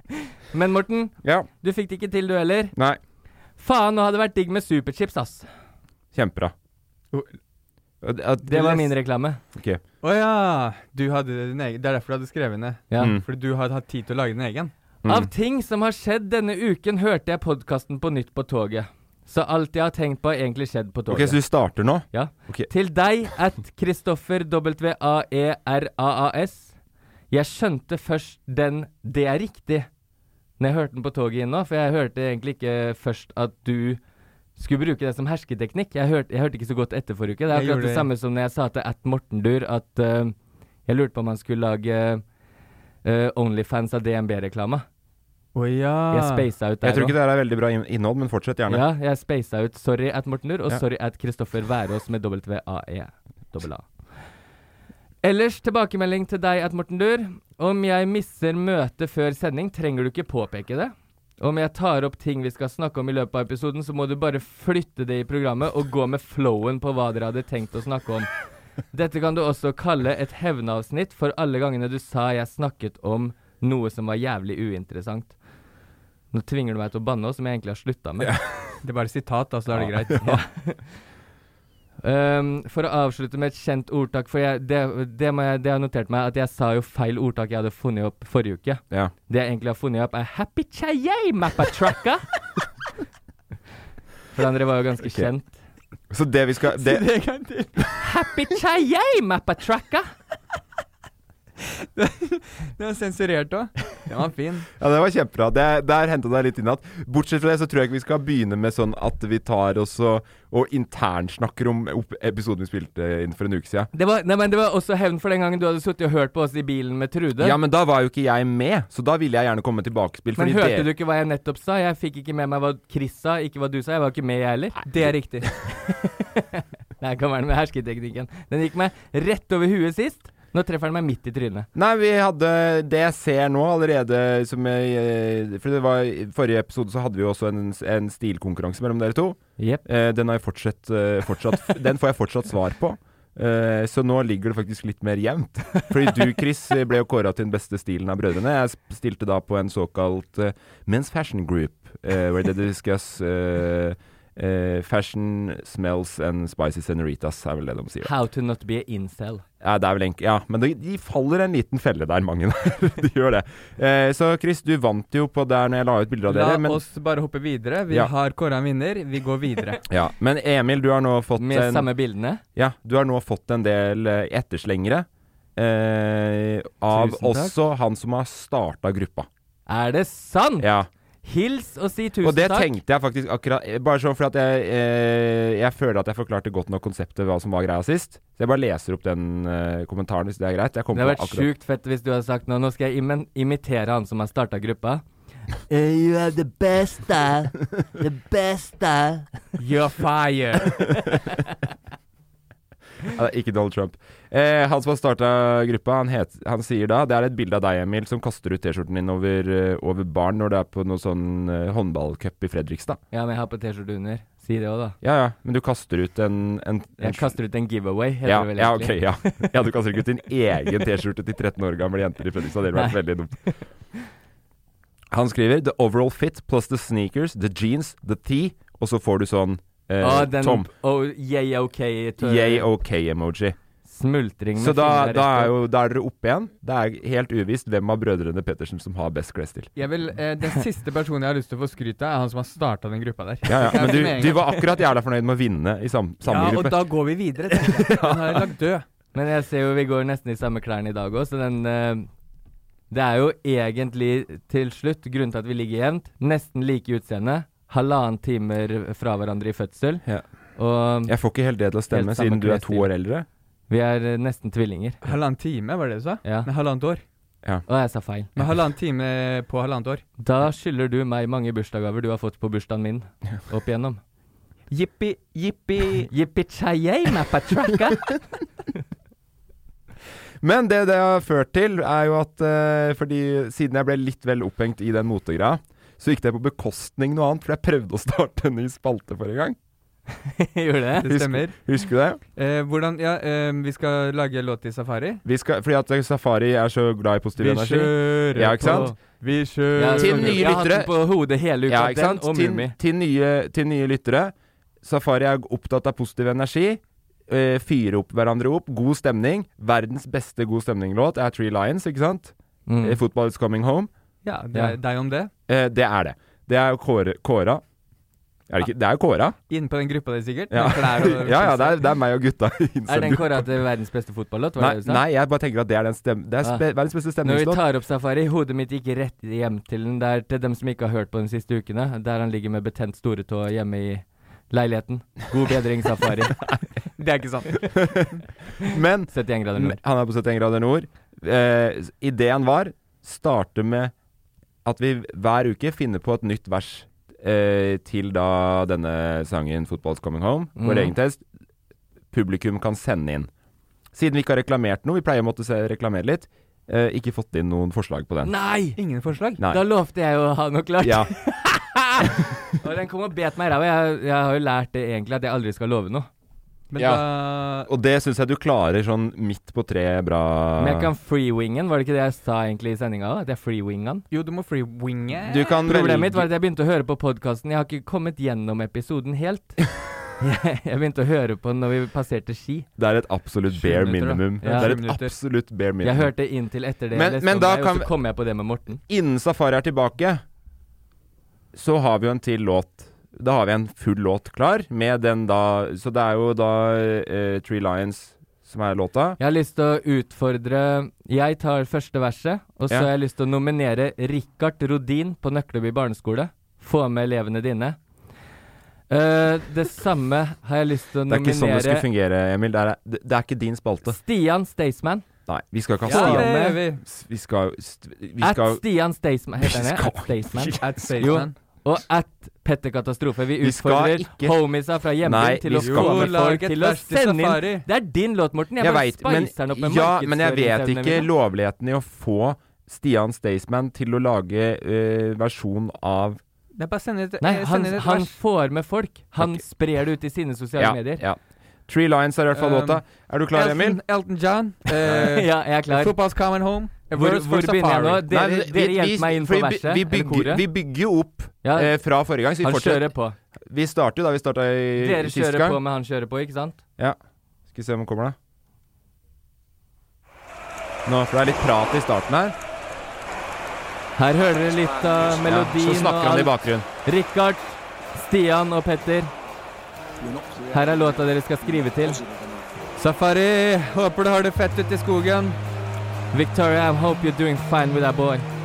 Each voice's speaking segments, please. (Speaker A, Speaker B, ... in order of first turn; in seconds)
Speaker A: 0.5-2.7, 3.6-5.5, 8.4-9.4, 15.0-21.4, 22.1-26.7, 27.3-29.9, 30.6-34.0, 34.6-40.3, 40.9-42.2, 43.0-44.9, 46.1-47.1, 48.7-53.9, 55.2-68.3, 68.9-75.3, 76.3-78.3, 80.2-80.8, 82.0-92.2, 94.3-95.6, 98.0-100.1, 113.9-117.6, 120.3-124.8, 125.9-131.7, 139.6-139.8, 158.0-159.4, 171.4-172.4, 176.9-177.5, 179.7-180.7, 181.2-182.7, 190.9-195.0, 195.7-199.3, 213.1-214.9, 217.0-219.5, 222.7-223.5, 230.0-232.7, 233.8-235.5, 249.1-252.1, 252.9-260.0, 260.6-261.1, 261.9-262.9, 263.7-265.0, 267.7-268.3, 270.2-274.0, 276.1-278.1, 290.2-291.1, 298.6-298.9, 299.7-302.7, 312.7-313.0, 322.9-325.0, 327.2-336.4, 339.1-339.8, 350.6-350.9, 358.2-358.8, 359.5-366.1, 370.6-374.0, 375.6-382.7, 384.4-384.7, 385.8-388.8, 399.2-407.8, 408.9-411.9, 413.9-415.0, 415.9-416.6, 418.2-431.1, 437.2-441.0, 444.9-446.0, 446.9-450.4, 451.4-451.7, 452.4-453.1, 454.8-456.6, 464.0-469.1, 470.5-472.0, 476.1-478.3
Speaker B: 1.2-1.5, 6.1-6.5, 8.0-8.9, 9.5-9.8, 13.0-13.2, 15.0-15.3, 21.1-22.7, 46.8-48.8, 78.2-78.8, 79.7-80.4, 95.0-95.3, 96.1-97.0, 104.8-113.9, 117.4-120.9, 131.7-158.1, 159.6-166.8, 169.9-171.9, 172.5-179.3, 180.6-180.9, 182.2-191.5, 203.1-213.0, 215.0-217.3, 218.2-223.4, 225.1-230.7, 232.2-233.6, 234.6-239.7, 243.4-246.9, 247.6-248.4, 261.0-263.2, 280.4-289.6, 291.1-292.2, 295.2-298.9, 299.9-300.9, 301.7-313.9, 315.5-317.6, 318.5-319.4, 320.5-323.5, 324.6-327.6, 338.6-343.9, 344.6-351.2, 352.1-353.3, 353.9-358.3, 360.8-361.1, 366.8-367.0, 367.6-370.9, 375.2-376.3, 382.8-386.1, 386.9-387.9, 388.9-390.2, 391.5-399.2, 411.1-414.0, 415.3-418.6, 419.4-421.2, 423.4-424.4, 425.0-426.2, 428.6-436.2, 439.2-439.4, 440.6-443.8, 444.8-445.1, 448.1-452.9, 453.5-455.6, 457.5-458.1, 460.9-462.3, 465.2-466.6
Speaker C: 10.0-14.7, 37.5-38.1, 45.5-46.4, 78.8-80.3, 96.7-97.9, 102.0-104.7, 124.8-125.5, 166.3-169.8, 199.6-201.0, 239.8-244.4, 246.2-248.8, 265.0-267.0, 268.4-270.0, 274.7-276.1, 291.0-291.6, 292.4-295.2, 297.4-300.6, 314.2-315.3, 319.5-321.8, 337.0-338.1, 358.8-359.4, 366.7-367.7, 374.1-375.6, 383.5-385.1, 415.9-416.8, 420.6-421.3, 425.6-427.6, 436.5-438.1, 442.3-448.0, 472.8-475.4